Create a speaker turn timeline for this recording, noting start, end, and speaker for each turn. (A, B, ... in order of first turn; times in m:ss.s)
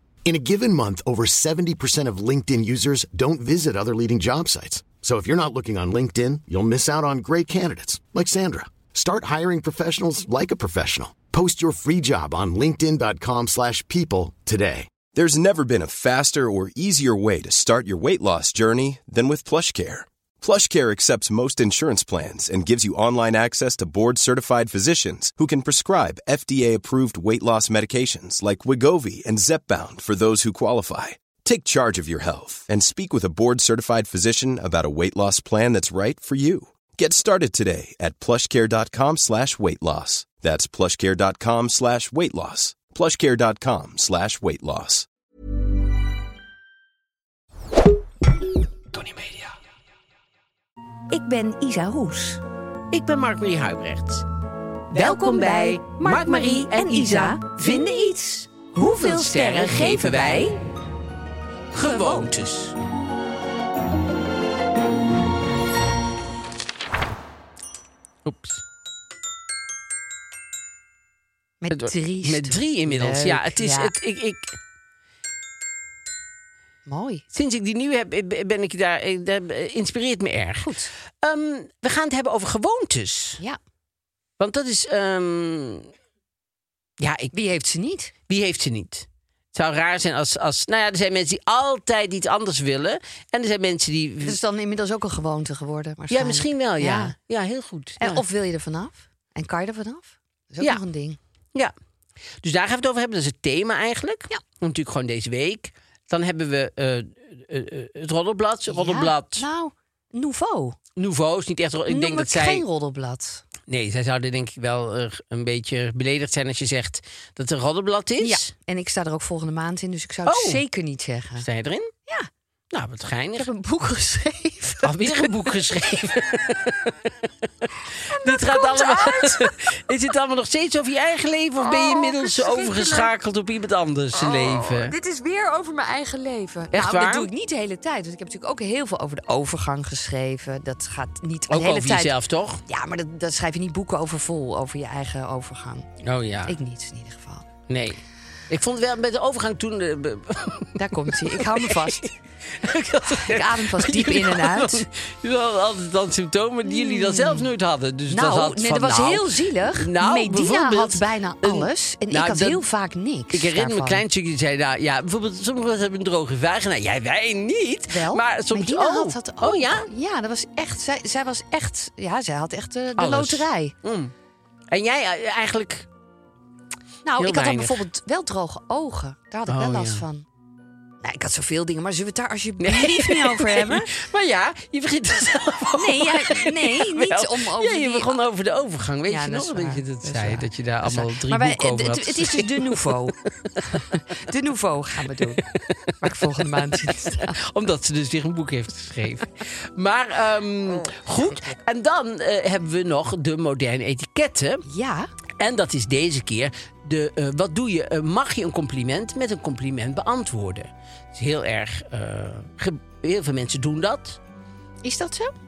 0:00.2-0:14.9 A
0:15.1-0:45.1 B
0:51.1-0:52.4 C
0:52.9-0:54.2 D
0:54.9-1:00.6 C
0:54.9-1:00.6 D
1:01.7-1:02.8 D
1:01.8-1:02.3 C
1:08.2-1:08.6 D
1:11.6-1:13.9 C
1:11.7-1:14.6 D
1:16.9-1:17.2 C
1:17.3-1:23.4 D
1:20.6-1:20.9 C
1:24.4-1:25.9 D
1:27.0-1:27.3 D
1:27.3-1:28.1 C
1:28.3-1:34.4 D
1:34.2-1:37.1 C
1:36.1-1:38.2 D
1:38.0-1:41.2 C
1:42.4-1:49.4 D
1:48.7-1:50.8 C
1:51.0-1:52.6 D
1:51.9-1:53.4 C
1:53.7-1:58.5 D
1:58.2-2:01.4 C
2:00.2-2:00.6 D
2:01.4-2:01.9 D
2:02.7-2:03.5 D
2:03.4-2:05.5 C
2:04.8-2:14.9 D
2:08.1-2:09.6 C
2:11.6-2:13.1 C
2:14.1-2:22.1 C
2:16.7-2:17.3 D
2:21.5-2:22.6 D
2:22.7-2:25.9 C
2:26.0-2:26.5 D
2:26.5-2:27.5 C
2:27.7-2:42.6 D
2:30.8-2:32.0 C
2:33.0-2:34.9 C
2:36.6-2:37.5 C
2:38.1-2:44.0 C
2:43.3-2:49.9 D
2:47.9-2:53.8 C
2:53.0-2:54.1 D
2:54.7-2:55.9 D
2:57.0-3:00.3 C
2:57.2-2:57.8 D
2:59.5-3:00.0 D
3:01.0-3:03.9 C
3:02.6-3:14.0 D
3:05.8-3:08.1 C
3:09.1-3:13.2 C
3:13.7-3:15.4 C
3:15.2-3:24.6 D
3:16.0-3:17.4 C
3:20.8-3:21.6 C
3:24.7-3:25.1 C
3:25.4-3:34.2 D
3:34.8-3:35.3 C